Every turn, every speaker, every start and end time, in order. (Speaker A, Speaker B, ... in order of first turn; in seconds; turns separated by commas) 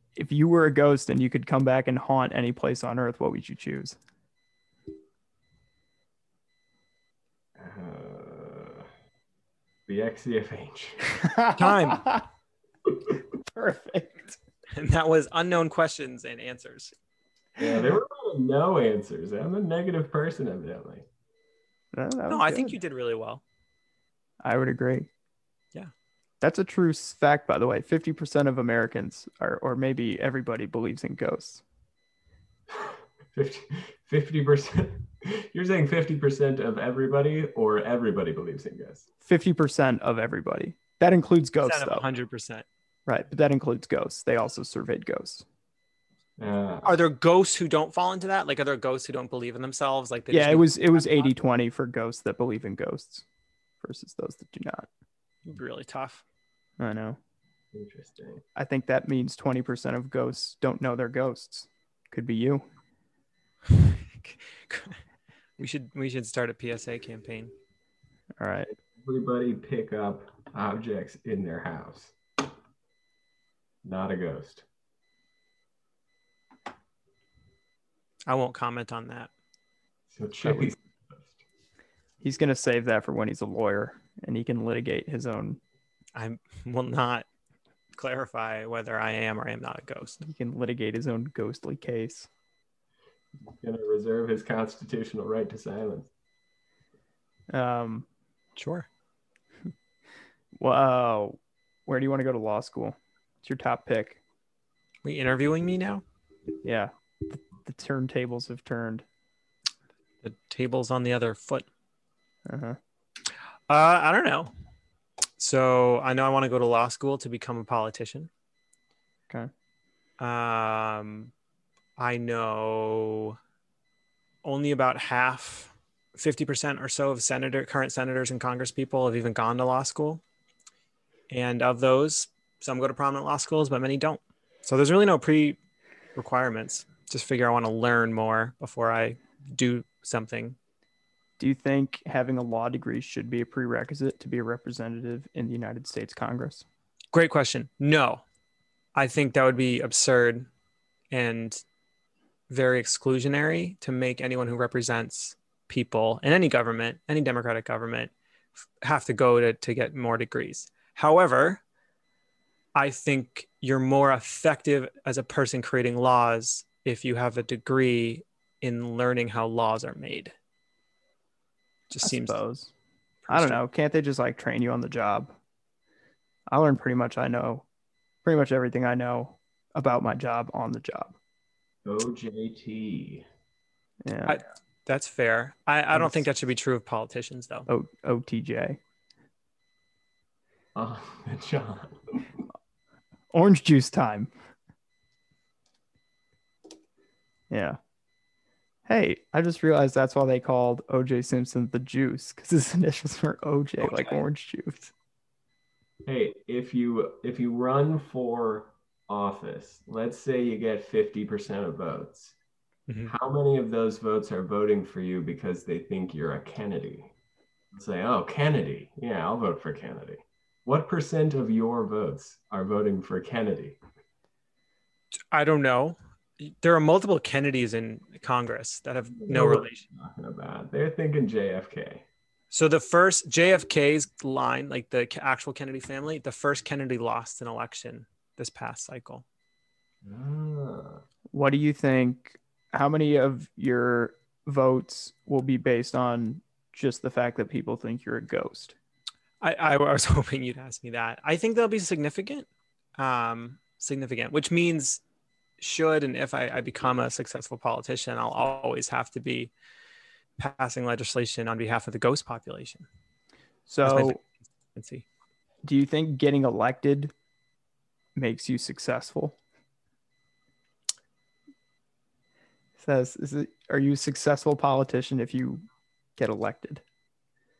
Speaker A: 0.1-4.0, Speaker B: 7.6-8.9, Speaker B: 9.9-11.0, Speaker A: 11.1-12.2, Speaker C: 11.5-12.1, Speaker A: 13.5-14.3, Speaker C: 14.7-16.9, Speaker B: 17.6-21.0, Speaker A: 21.9-22.8, Speaker C: 22.3-23.4, Speaker A: 24.4-25.1, Speaker A: 26.4-31.6, Speaker B: 32.7-39.1, Speaker A: 39.2-42.0, Speaker C: 41.6-42.6, Speaker A: 43.1-45.4, Speaker B: 46.4-47.0, Speaker C: 46.8-51.2, Speaker A: 50.3-53.2, Speaker A: 53.8-54.9, Speaker C: 55.4-56.2, Speaker A: 56.8-57.2, Speaker B: 57.7-58.4, Speaker A: 58.5-62.6, Speaker C: 63.7-65.0, Speaker C: 65.6-67.5, Speaker A: 68.4-68.7, Speaker B: 69.0-72.1, Speaker B: 73.8-74.6, Speaker C: 78.3-79.3, Speaker B: 80.1-81.3, Speaker A: 80.4-80.7, Speaker A: 82.2-85.6, Speaker C: 86.1-87.2, Speaker C: 87.9-90.2, Speaker A: 90.2-92.3, Speaker B: 93.4-96.1, Speaker A: 97.5-98.0, Speaker C: 98.5-98.9, Speaker A: 100.6-104.2, Speaker C: 105.0-106.0, Speaker A: 106.6-109.0, Speaker C: 110.2-111.7, Speaker A: 112.5-112.8, Speaker C: 113.7-114.5, Speaker C: 115.4-118.3, Speaker C: 120.2-121.3, Speaker C: 122.0-123.4, Speaker C: 124.4-130.2, Speaker C: 131.3-135.6, Speaker C: 136.2-140.6, Speaker A: 141.4-146.6, Speaker C: 147.1-148.2, Speaker C: 148.9-150.5, Speaker C: 151.1-151.6, Speaker C: 152.5-158.1, Speaker C: 158.8-161.6, Speaker C: 162.7-170.3, Speaker C: 171.9-172.4, Speaker A: 172.0-172.7, Speaker C: 173.2-173.6, Speaker A: 173.3-175.3, Speaker A: 176.5-177.6, Speaker A: 178.2-181.1, Speaker B: 181.8-183.2, Speaker A: 184.0-184.4, Speaker C: 184.3-187.7, Speaker A: 185.9-186.3, Speaker A: 187.7-188.8, Speaker B: 190.7-192.2, Speaker A: 193.3-194.3, Speaker A: 197.5-197.8, Speaker A: 198.9-204.9, Speaker B: 206.0-212.3, Speaker C: 212.9-213.1, Speaker B: 213.1-217.1, Speaker B: 217.7-223.8, Speaker C: 225.3-229.8, Speaker B: 229.2-232.0, Speaker C: 232.5-239.2, Speaker B: 240.0-241.0, Speaker A: 241.3-248.7, Speaker C: 249.4-255.0, Speaker C: 255.6-259.5, Speaker C: 260.4-262.9, Speaker A: 263.7-264.2, Speaker C: 263.8-265.1, Speaker A: 265.6-267.1, Speaker A: 268.1-269.4, Speaker A: 272.8-275.6, Speaker A: 276.2-276.8